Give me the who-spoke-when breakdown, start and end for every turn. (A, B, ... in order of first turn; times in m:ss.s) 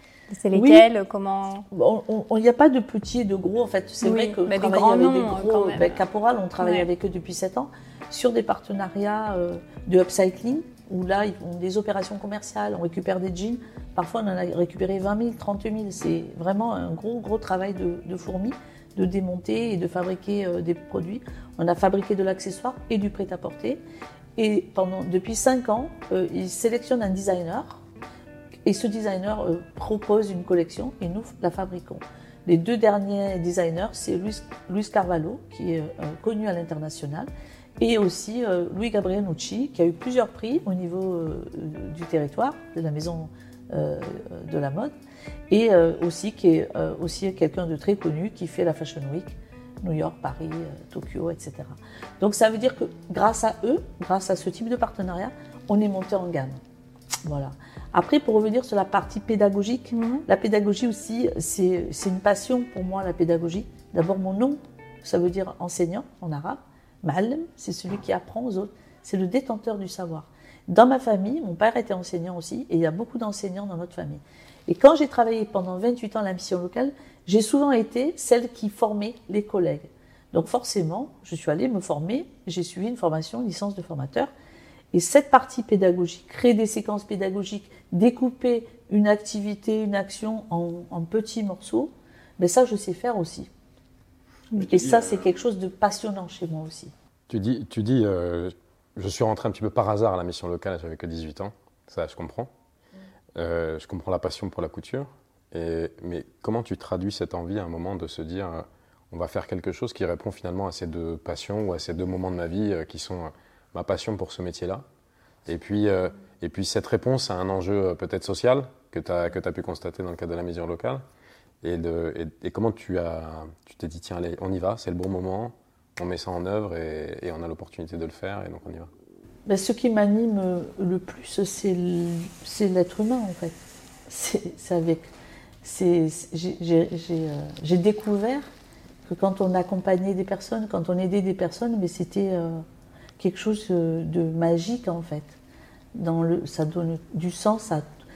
0:00.3-0:01.7 A
0:00.5-0:00.9 B
0:01.7-0:23.8 B
0:04.0-0:06.0 A
0:06.6-0:06.9 A
0:24.4-0:27.8 B
0:28.6-0:44.9 B
0:45.5-0:56.6 B
0:57.2-1:24.3 B
0:59.9-1:00.2 A
1:24.9-1:33.5 B
1:34.6-1:36.9 B
1:34.7-1:35.2 C
1:37.3-1:42.5 C
1:43.3-1:54.8 C
1:55.5-2:01.0 C
2:01.6-2:08.9 C
2:09.5-2:15.1 B
2:15.6-2:18.5 B
2:19.1-2:22.6 B
2:23.2-2:25.4 B
2:25.9-2:27.8 B